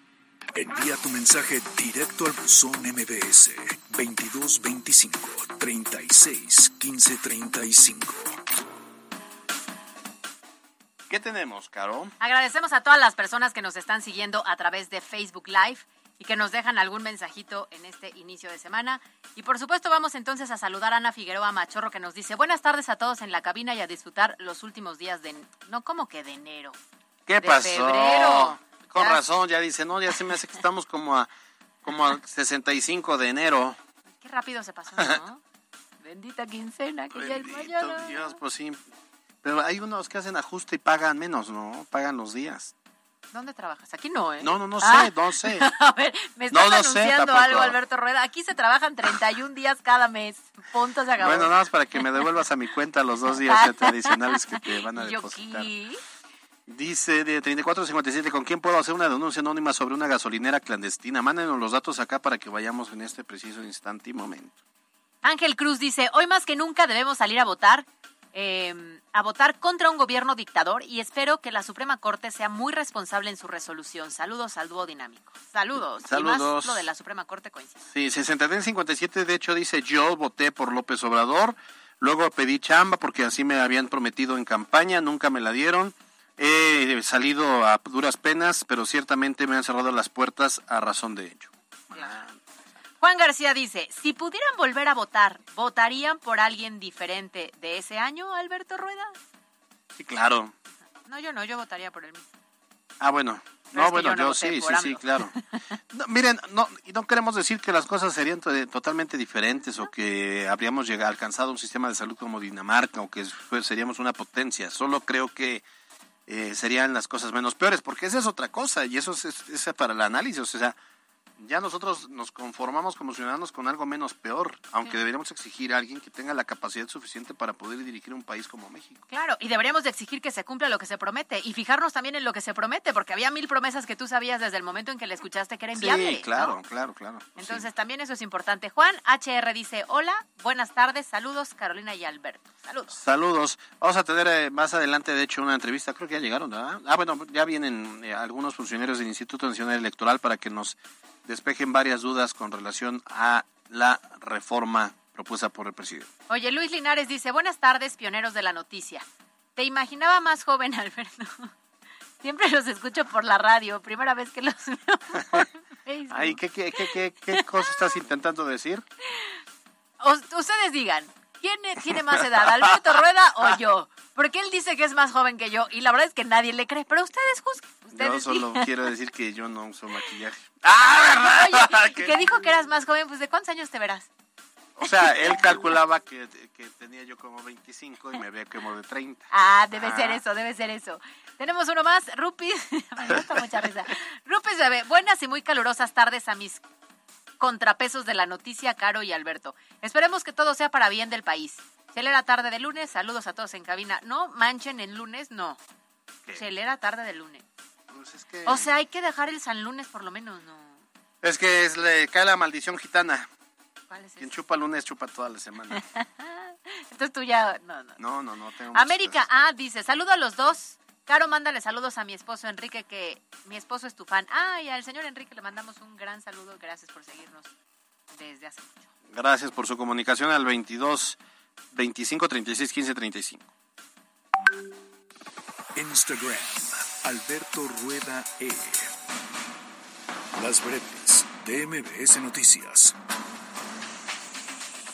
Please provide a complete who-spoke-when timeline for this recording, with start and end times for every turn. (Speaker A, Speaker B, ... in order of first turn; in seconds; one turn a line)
Speaker A: 0.5-8.4
Speaker B: 11.1-12.1
Speaker C: 12.2-26.8
Speaker B: 27.3-31.3
Speaker C: 27.4-29.2
Speaker B: 31.8-33.8
Speaker C: 34.2-35.4
Speaker C: 36.0-38.3
Speaker B: 37.1-38.8
Speaker B: 39.4-42.7
Speaker C: 43.3-51.6
Speaker B: 44.4-45.7
Speaker B: 46.5-47.8
Speaker B: 51.2-55.7
Speaker C: 53.5-56.0
Speaker B: 56.7-64.6
Speaker C: 65.2-77.8
Speaker B: 76.0-76.8
Speaker B: 77.9-92.4
Speaker C: 93.0-99.2
Speaker B: 99.9-100.5
Speaker C: 101.0-102.3
Speaker B: 103.0-105.3
Speaker C: 103.7-105.4
Speaker B: 105.9-115.6
Speaker B: 116.3-120.8
Speaker B: 121.4-129.0
Speaker C: 129.1-136.6
Speaker B: 135.7-137.7
Speaker C: 137.4-143.0
Speaker B: 142.9-156.1
Speaker C: 156.3-159.0
Speaker C: 159.6-161.5
Speaker C: 162.2-167.4
Speaker B: 166.1-168.8
Speaker C: 170.0-178.7
Speaker B: 172.4-172.6
Speaker B: 177.9-182.2
Speaker C: 180.9-184.1
Speaker B: 184.8-189.3
Speaker C: 189.3-196.6
Speaker B: 189.8-190.2
Speaker C: 197.4-205.6
Speaker C: 206.3-207.4
Speaker B: 207.9-208.7
Speaker C: 208.4-210.8
Speaker B: 211.2-213.3
Speaker C: 213.9-214.3
Speaker B: 214.2-215.8
Speaker C: 215.7-218.0
Speaker B: 218.0-219.2
Speaker C: 218.7-227.5
Speaker C: 228.1-228.9
Speaker B: 229.1-231.2
Speaker B: 231.7-233.5
Speaker A: 235.7-238.9
Speaker A: 240.3-242.9